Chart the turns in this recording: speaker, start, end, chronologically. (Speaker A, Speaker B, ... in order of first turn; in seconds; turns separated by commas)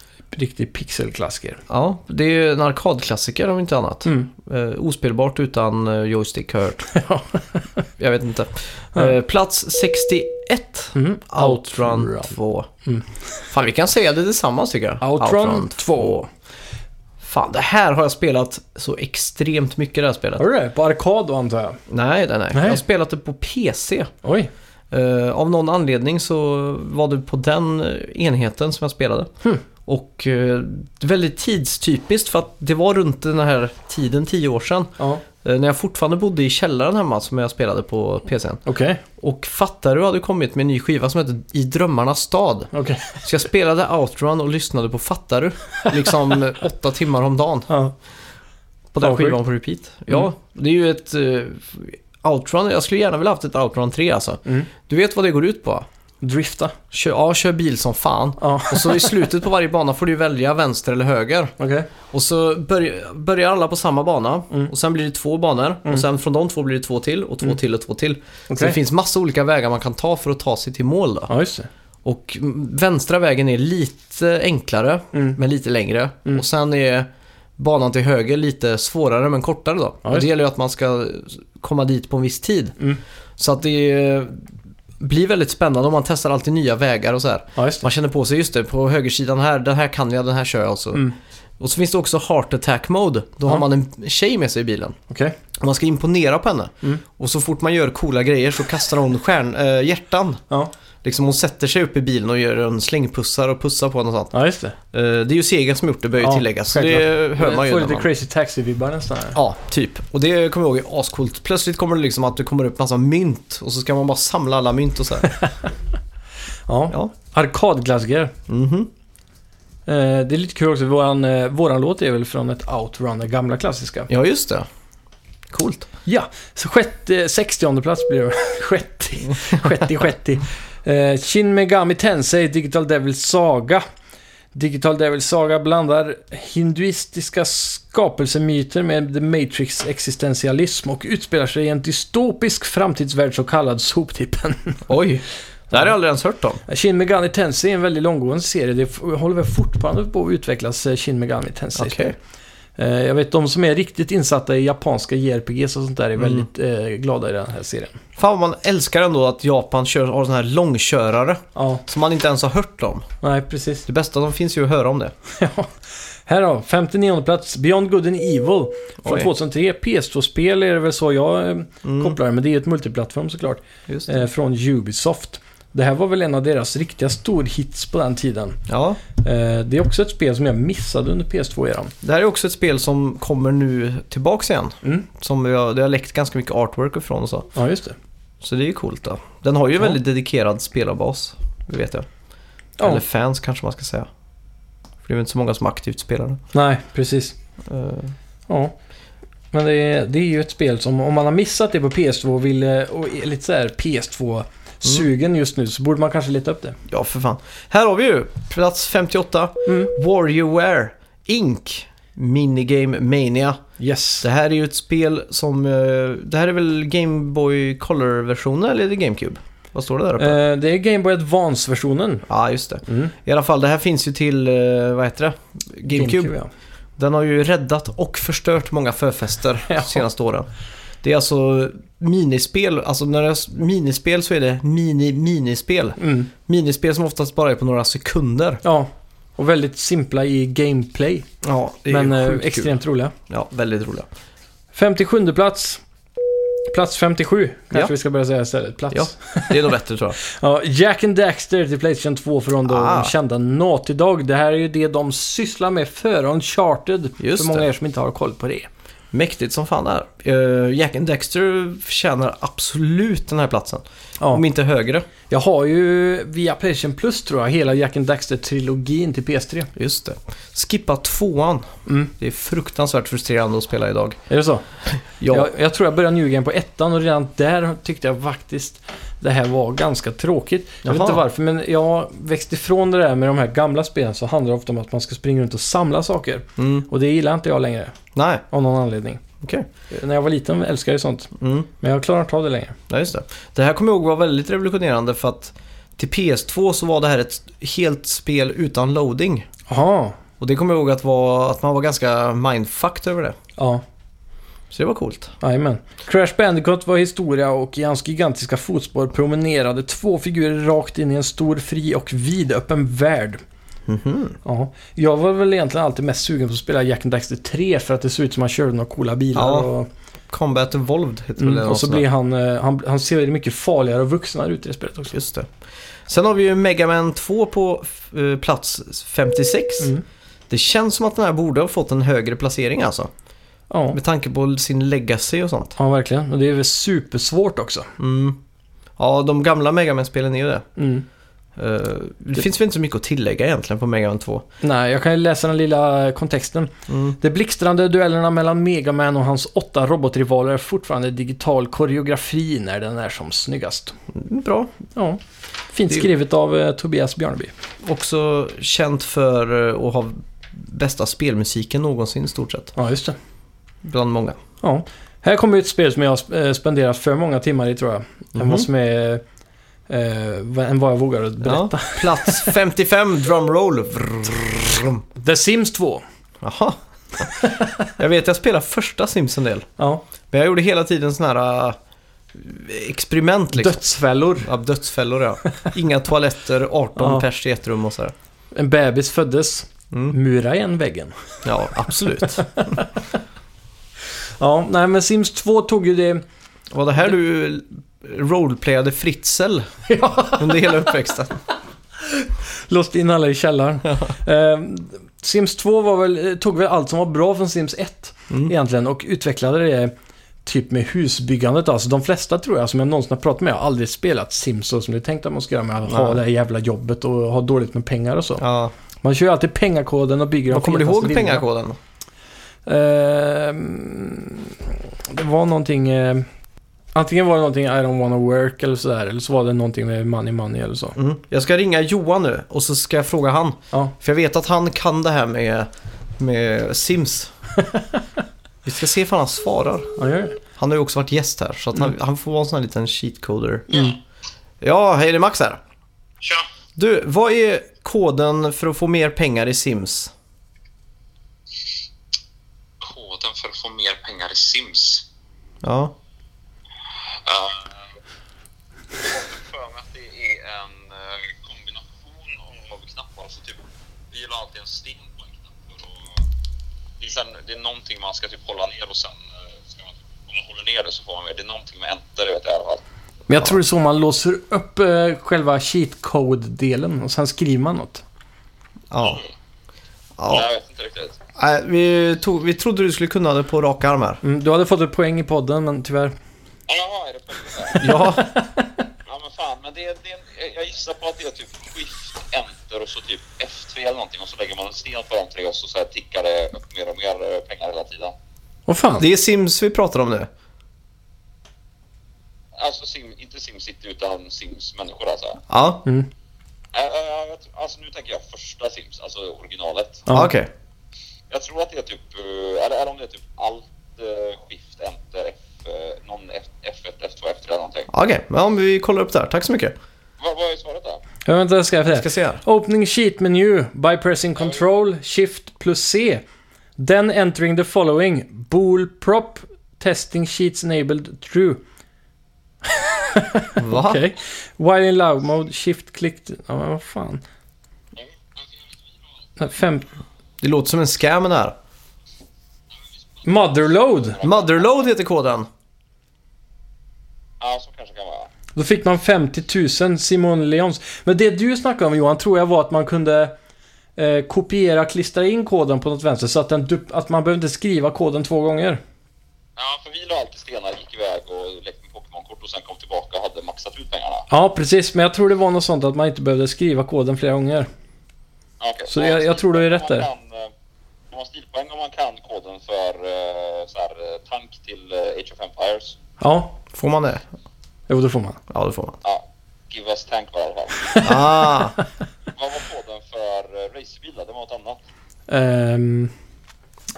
Speaker A: 0.3-1.6, Speaker B: 1.7-6.9, Speaker A: 4.0-4.3, Speaker A: 6.9-7.8, Speaker B: 8.0-12.7, Speaker A: 10.9-12.3, Speaker B: 13.5-16.3, Speaker A: 15.0-16.3, Speaker B: 17.2-20.4, Speaker A: 20.4-21.8, Speaker B: 21.9-24.1, Speaker A: 22.5-22.8, Speaker A: 24.2-24.5, Speaker B: 24.9-29.3, Speaker B: 29.8-38.6, Speaker A: 38.6-39.0, Speaker B: 39.2-42.7, Speaker A: 42.7-43.2, Speaker B: 43.2-47.7, Speaker A: 47.7-47.9, Speaker B: 48.9-55.9, Speaker A: 49.0-49.4, Speaker A: 56.2-56.8, Speaker B: 56.9-61.5, Speaker A: 58.4-59.2, Speaker A: 61.6-61.9, Speaker B: 62.1-71.3, Speaker A: 68.5-68.8, Speaker A: 71.3-71.7, Speaker B: 72.0-82.8, Speaker B: 83.4-84.4, Speaker B: 85.0-91.0, Speaker A: 87.5-87.8, Speaker B: 91.6-95.0, Speaker A: 95.1-95.3, Speaker B: 95.6-100.4, Speaker B: 101.0-104.3, Speaker A: 104.3-104.8, Speaker B: 104.9-108.1, Speaker A: 106.2-109.4, Speaker B: 109.3-115.3, Speaker A: 115.3-115.7, Speaker A: 116.7-118.3, Speaker B: 118.5-118.9, Speaker A: 119.8-124.1, Speaker B: 124.1-124.7, Speaker B: 125.5-125.9, Speaker A: 126.1-133.8, Speaker A: 134.5-144.8, Speaker B: 144.9-146.6, Speaker A: 146.7-152.2, Speaker B: 151.8-152.1, Speaker A: 152.8-158.0, Speaker B: 156.2-156.4, Speaker B: 158.2-163.1, Speaker A: 161.5-161.8, Speaker A: 163.2-163.8, Speaker B: 163.8-165.1, Speaker A: 165.3-178.6, Speaker B: 169.0-169.3, Speaker B: 171.8-172.2, Speaker B: 173.9-174.2, Speaker B: 178.7-179.0, Speaker A: 179.2-181.9, Speaker B: 182.0-187.5, Speaker A: 187.5-187.9, Speaker B: 188.4-192.1, Speaker B: 192.8-194.1, Speaker B: 195.0-196.4, Speaker A: 196.5-197.3, Speaker B: 197.6-198.1, Speaker A: 198.5-198.7, Speaker A: 199.5-206.8, Speaker B: 206.9-213.6, Speaker A: 209.7-209.9, Speaker A: 213.8-214.2, Speaker B: 214.2-220.4, Speaker A: 220.2-222.2, Speaker B: 222.3-226.3, Speaker A: 222.8-223.1, Speaker A: 225.9-226.5, Speaker B: 227.0-230.5, Speaker A: 229.7-230.0, Speaker B: 231.0-238.6, Speaker A: 236.0-236.3, Speaker A: 238.6-241.3, Speaker B: 241.4-242.7, Speaker A: 241.9-243.1, Speaker B: 243.3-244.1, Speaker A: 244.7-245.8, Speaker A: 246.7-249.6, Speaker B: 248.9-250.2, Speaker A: 250.2-258.7, Speaker B: 252.7-253.1, Speaker B: 257.2-257.6, Speaker B: 259.1-265.1, Speaker A: 265.3-269.7, Speaker B: 269.8-274.2, Speaker A: 274.3-274.6, Speaker B: 274.9-275.5, Speaker A: 275.3-287.9, Speaker B: 280.8-281.2, Speaker B: 286.6-286.9, Speaker B: 288.1-288.4, Speaker A: 288.5-289.2, Speaker B: 289.4-289.7, Speaker A: 289.9-292.8, Speaker B: 291.4-291.7, Speaker B: 292.9-299.5, Speaker A: 299.7-300.2, Speaker B: 300.4-303.4, Speaker A: 303.6-303.8, Speaker B: 304.7-305.3, Speaker A: 305.4-313.4, Speaker B: 313.9-314.4, Speaker A: 314.4-319.9, Speaker B: 319.3-319.7, Speaker B: 320.3-322.0, Speaker A: 321.4-325.1, Speaker B: 325.1-325.5, Speaker B: 326.1-329.9, Speaker B: 330.5-333.1, Speaker A: 333.7-334.0, Speaker B: 333.9-335.8, Speaker A: 335.8-337.9, Speaker B: 338.0-338.4, Speaker B: 339.0-340.7, Speaker A: 340.8-341.0, Speaker B: 341.6-344.4, Speaker A: 344.6-353.9, Speaker B: 346.9-347.1, Speaker B: 354.1-354.7, Speaker A: 354.9-355.2, Speaker A: 355.7-357.5, Speaker B: 357.8-362.7, Speaker A: 362.8-363.1, Speaker B: 363.8-364.4, Speaker A: 364.6-369.2, Speaker B: 368.3-368.7, Speaker A: 369.9-372.6, Speaker B: 371.4-375.0, Speaker A: 375.1-376.0, Speaker B: 376.4-377.3, Speaker A: 377.4-377.8, Speaker B: 378.0-379.7, Speaker A: 379.8-380.0, Speaker B: 380.3-381.8, Speaker B: 382.3-383.8, Speaker A: 383.5-384.5, Speaker B: 384.4-388.1, Speaker A: 387.0-387.2, Speaker A: 388.5-391.4, Speaker B: 391.4-392.8, Speaker A: 392.2-393.0, Speaker A: 394.4-396.2, Speaker B: 396.7-399.7, Speaker A: 399.9-400.9, Speaker B: 400.4-401.4, Speaker A: 402.0-409.9, Speaker A: 410.4-418.4, Speaker B: 415.8-416.2, Speaker B: 418.4-418.7, Speaker A: 419.0-421.4, Speaker B: 420.5-421.8, Speaker A: 422.6-426.3, Speaker A: 426.9-430.9, Speaker B: 430.9-437.3, Speaker A: 437.6-438.0, Speaker B: 438.6-440.0, Speaker A: 440.0-440.4, Speaker B: 440.5-443.8, Speaker B: 444.6-445.6, Speaker B: 446.8-450.1, Speaker C: 452.8-455.0, Speaker B: 455.6-455.9, Speaker C: 457.2-457.9, Speaker C: 458.9-466.2, Speaker C: 467.0-472.8, Speaker A: 473.3-478.0, Speaker B: 478.9-479.2, Speaker C: 479.0-479.3, Speaker B: 480.2-480.5, Speaker C: 480.3-481.2, Speaker B: 481.4-484.2, Speaker A: 484.2-486.1, Speaker C: 486.7-487.9, Speaker A: 487.8-488.8, Speaker B: 487.8-488.3, Speaker C: 489.1-498.1, Speaker A: 498.7-499.0, Speaker B: 499.0-500.3, Speaker C: 502.6-505.4, Speaker B: 505.5-505.8, Speaker C: 506.7-510.1, Speaker A: 510.1-510.3, Speaker B: 510.1-510.5, Speaker C: 511.3-517.9, Speaker B: 517.9-519.7, Speaker C: 520.2-521.0, Speaker A: 521.2-526.2, Speaker B: 521.9-522.4, Speaker A: 526.8-531.6, Speaker A: 532.6-537.2, Speaker B: 533.6-534.0, Speaker A: 539.4-539.9, Speaker B: 540.4-541.5, Speaker A: 543.2-544.2, Speaker C: 544.1-544.9, Speaker B: 544.2-545.5, Speaker C: 547.4-548.3, Speaker A: 548.5-553.3, Speaker A: 554.0-558.8, Speaker C: 559.6-564.2, Speaker A: 564.3-567.7, Speaker C: 568.6-570.5, Speaker A: 568.9-570.1, Speaker C: 571.1-576.0, Speaker A: 576.2-576.6, Speaker B: 576.7-577.2, Speaker A: 577.9-578.4, Speaker B: 578.5-579.0, Speaker C: 579.0-581.0, Speaker A: 580.9-581.2, Speaker B: 581.0-581.8, Speaker C: 582.3-584.8, Speaker A: 585.3-586.1